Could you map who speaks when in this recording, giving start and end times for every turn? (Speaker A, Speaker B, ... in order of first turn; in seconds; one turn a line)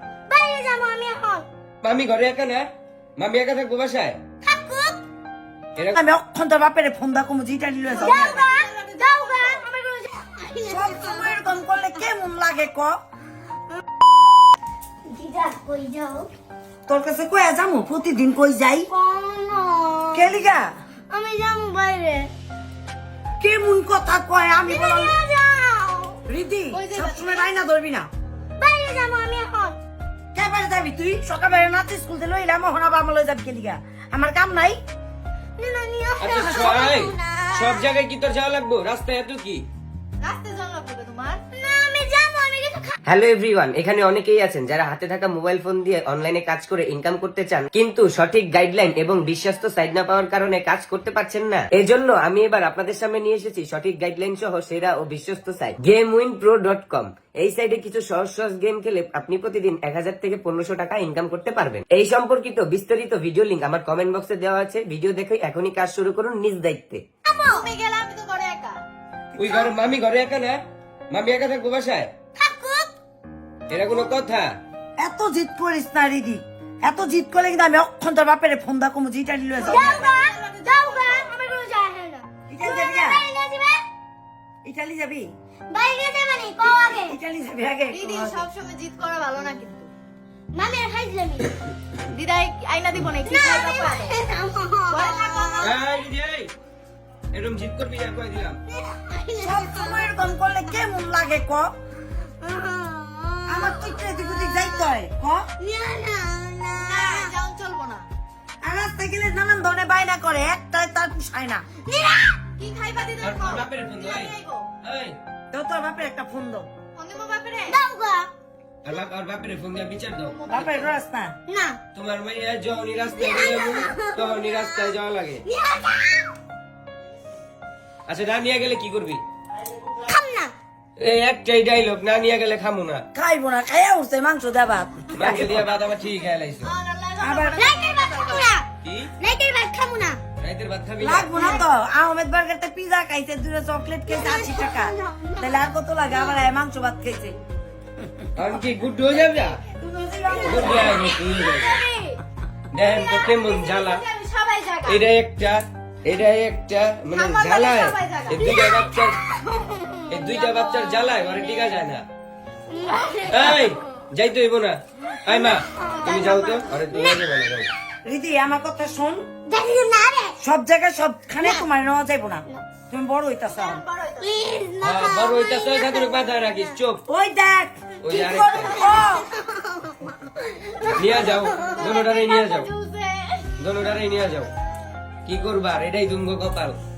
Speaker A: 0.3-1.5
Speaker B: 1.8-4.2
Speaker A: 4.4-5.0
Speaker C: 5.9-8.4
Speaker D: 7.9-9.7
Speaker A: 7.9-11.4
Speaker C: 10.7-13.0
Speaker A: 15.1-16.3
Speaker C: 16.9-18.9
Speaker A: 18.9-20.4
Speaker C: 20.1-20.8
Speaker A: 21.1-22.3
Speaker C: 23.4-25.1
Speaker A: 24.6-26.2
Speaker C: 26.3-28.1
Speaker D: 26.7-27.5
Speaker A: 28.6-29.8
Speaker C: 30.3-34.8
Speaker A: 35.6-37.9
Speaker B: 36.2-39.6
Speaker C: 36.4-36.7
Speaker D: 40.2-41.4
Speaker A: 41.5-43.0
Speaker E: 43.1-67.0
Speaker A: 67.2-67.7
Speaker D: 67.5-68.8
Speaker B: 69.4-70.6
Speaker B: 71.1-72.1
Speaker A: 72.4-72.9
Speaker B: 73.7-74.5
Speaker C: 75.0-80.0
Speaker D: 79.6-81.3
Speaker A: 79.6-83.8
Speaker C: 82.5-83.2
Speaker C: 84.6-85.3
Speaker A: 85.7-87.1
Speaker C: 87.0-88.4
Speaker D: 87.9-89.9
Speaker A: 90.5-91.5
Speaker D: 92.1-94.2
Speaker A: 93.2-95.7
Speaker D: 94.9-95.7
Speaker B: 95.6-96.5
Speaker B: 97.3-98.6
Speaker A: 98.7-100.2
Speaker C: 99.4-101.7
Speaker A: 102.2-105.0
Speaker C: 103.5-105.5
Speaker A: 105.6-107.3
Speaker D: 106.8-108.1
Speaker C: 108.6-111.6
Speaker A: 111.8-112.5
Speaker D: 112.6-114.7
Speaker B: 113.2-115.2
Speaker C: 115.5-116.7
Speaker D: 117.0-117.8
Speaker A: 117.7-118.3
Speaker B: 118.8-120.8
Speaker D: 120.2-120.9
Speaker C: 120.5-121.3
Speaker A: 121.5-121.8
Speaker B: 121.9-125.4
Speaker A: 123.2-124.9
Speaker A: 125.5-126.3
Speaker B: 128.1-129.2
Speaker A: 130.1-130.5
Speaker B: 131.0-133.0
Speaker C: 133.1-135.6
Speaker B: 135.1-136.7
Speaker D: 136.6-138.6
Speaker C: 137.2-137.7
Speaker A: 137.6-138.7
Speaker B: 138.8-139.1
Speaker A: 139.2-140.2
Speaker B: 140.4-141.3
Speaker C: 141.0-147.3
Speaker D: 141.3-141.7
Speaker A: 144.1-146.4
Speaker B: 148.3-149.6
Speaker A: 149.8-151.4
Speaker C: 150.2-150.9
Speaker B: 150.4-151.8
Speaker D: 151.3-152.2
Speaker B: 152.7-154.0
Speaker D: 152.8-155.0
Speaker B: 154.8-159.2
Speaker D: 157.1-158.5
Speaker A: 158.4-160.2
Speaker B: 160.1-162.0
Speaker D: 160.3-161.7
Speaker A: 162.7-163.7
Speaker B: 163.3-167.7
Speaker A: 165.8-166.2
Speaker C: 166.0-166.5
Speaker C: 168.1-169.3
Speaker A: 169.4-170.4
Speaker C: 170.4-173.8
Speaker D: 173.5-174.3
Speaker A: 174.2-176.2
Speaker B: 174.8-177.0
Speaker C: 177.1-179.3
Speaker B: 178.0-178.8
Speaker A: 178.8-181.6
Speaker B: 180.9-182.7
Speaker D: 181.8-183.5
Speaker B: 183.6-184.5
Speaker B: 185.2-186.8